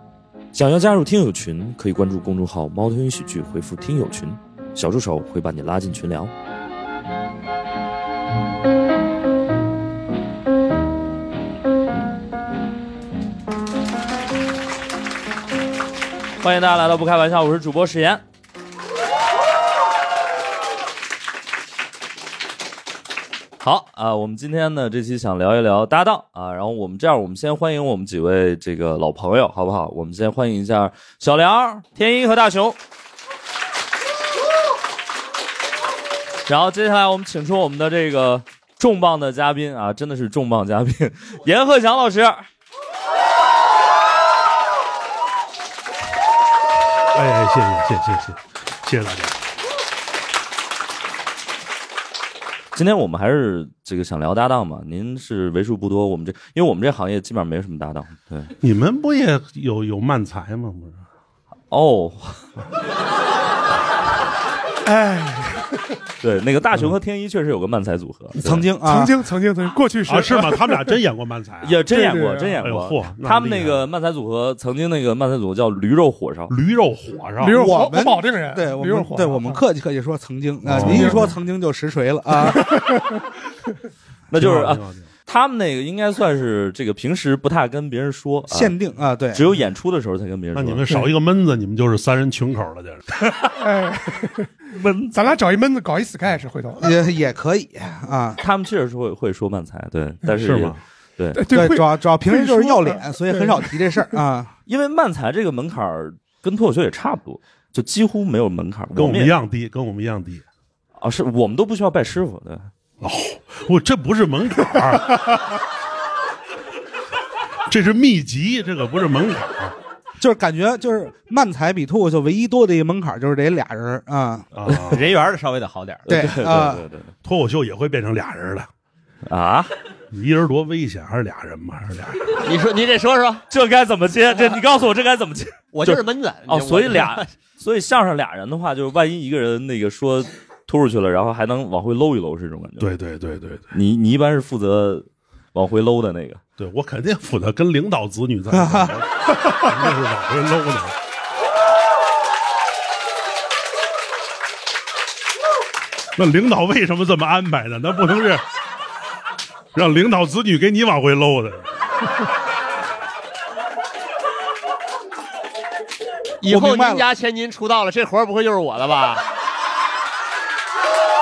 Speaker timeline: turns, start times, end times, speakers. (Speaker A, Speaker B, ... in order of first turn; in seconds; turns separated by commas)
Speaker A: 0.5-6.3, Speaker A: 16.4-18.2, Speaker A: 23.6-32.8, Speaker A: 36.5-42.5, Speaker B: 47.1-49.3, Speaker A: 52.7-58.5, Speaker B: 58.6-61.0, Speaker A: 61.7-62.4, Speaker C: 64.8-65.7, Speaker A: 66.2-68.6, Speaker D: 68.4-69.1, Speaker C: 68.8-71.0, Speaker B: 70.1-71.8, Speaker A: 71.6-76.5, Speaker C: 71.9-72.6, Speaker B: 72.6-73.8, Speaker B: 76.5-77.7, Speaker C: 77.4-79.6, Speaker D: 77.5-82.8, Speaker B: 80.6-81.3, Speaker C: 80.8-81.3, Speaker C: 82.5-83.2, Speaker A: 84.3-88.7, Speaker B: 84.3-85.1, Speaker D: 88.5-89.4, Speaker A: 89.3-90.8, Speaker B: 90.5-93.1, Speaker C: 93.6-94.5, Speaker A: 94.7-95.1, Speaker C: 95.1-96.9, Speaker D: 96.8-98.4, Speaker A: 98.4-101.4, Speaker B: 100.3-100.8, Speaker C: 101.3-103.8, Speaker D: 101.5-104.5, Speaker A: 104.7-109.3, Speaker B: 108.9-110.4, Speaker A: 111.0-112.7, Speaker B: 113.0-115.6, Speaker B: 117.7-119.8, Speaker D: 120.2-124.5, Speaker B: 124.5-125.0, Speaker E: 124.9-126.0, Speaker D: 126.1-126.8, Speaker A: 126.1-127.1, Speaker B: 127.2-128.7, Speaker A: 129.3-129.7, Speaker B: 130.1-132.4, Speaker E: 132.4-133.4, Speaker A: 133.5-142.9, Speaker E: 135.7-137.3, Speaker B: 142.8-143.7, Speaker A: 143.7-146.4, Speaker B: 146.6-150.9, Speaker D: 148.5-148.9, Speaker B: 156.2-158.4, Speaker B: 159.7-161.7, Speaker E: 166.4-169.2, Speaker D: 166.4-167.1